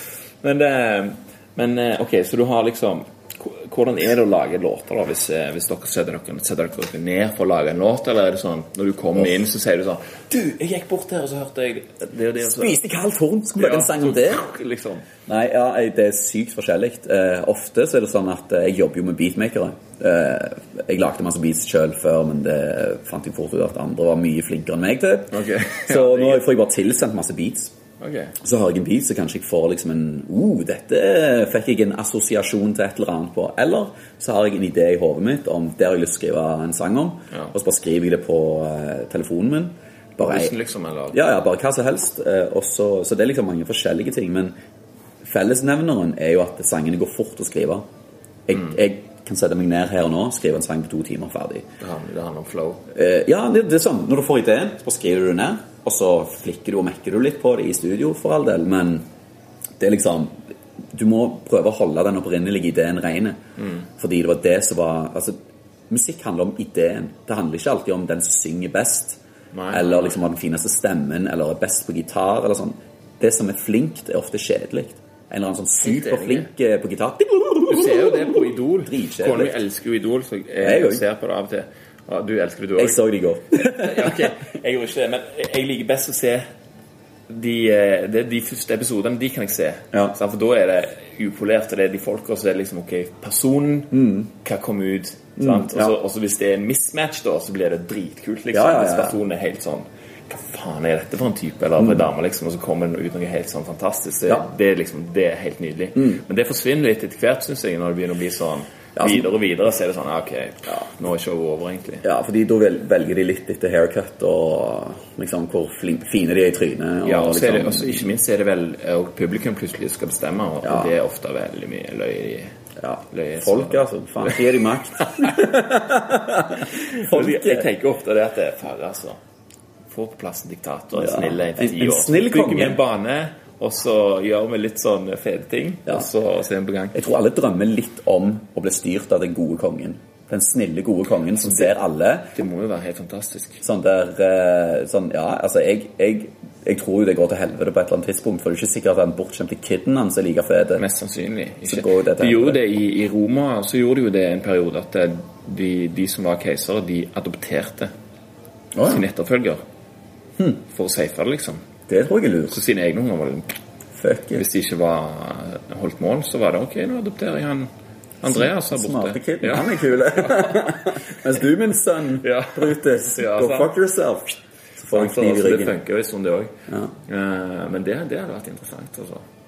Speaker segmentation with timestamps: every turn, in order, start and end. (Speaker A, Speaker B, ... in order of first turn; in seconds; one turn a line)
Speaker A: 0.4-12.8
Speaker B: 12.4-14.4
Speaker A: 13.6-15.1
Speaker B: 15.3-27.7
Speaker A: 25.3-26.4
Speaker A: 28.0-28.4
Speaker B: 28.4-40.5
Speaker A: 40.2-41.2
Speaker B: 41.1-44.5
Speaker B: 45.2-47.8
Speaker B: 48.5-51.7
Speaker A: 51.8-52.8
Speaker B: 52.9-59.0
Speaker B: 59.8-63.4
Speaker A: 63.6-63.9
Speaker B: 63.9-65.4
Speaker B: 65.9-69.2
Speaker A: 69.5-70.2
Speaker B: 69.7-79.5
Speaker A: 75.8-76.5
Speaker A: 77.7-83.0
Speaker B: 80.6-81.0
Speaker B: 82.8-84.3
Speaker A: 83.5-86.5
Speaker A: 87.3-112.0
Speaker B: 93.9-94.3
Speaker B: 95.4-95.9
Speaker B: 98.5-99.2
Speaker B: 109.0-109.3
Speaker B: 112.0-118.1
Speaker A: 117.0-122.5
Speaker B: 120.6-120.9
Speaker B: 122.8-127.7
Speaker A: 123.1-124.5
Speaker A: 125.0-125.4
Speaker A: 126.6-129.2
Speaker A: 129.9-137.0
Speaker B: 131.0-132.8
Speaker B: 136.9-142.3
Speaker A: 142.3-143.6
Speaker B: 143.6-150.8
Speaker A: 150.8-157.9
Speaker B: 151.7-152.6
Speaker B: 158.7-159.0
Speaker A: 158.8-159.6
Speaker A: 160.6-161.7
Speaker B: 161.9-162.6
Speaker A: 162.5-163.5
Speaker B: 163.9-164.4
Speaker A: 164.4-167.7
Speaker A: 168.2-170.8
Speaker B: 168.3-175.7
Speaker A: 172.2-173.7
Speaker A: 174.9-176.5
Speaker A: 177.1-179.2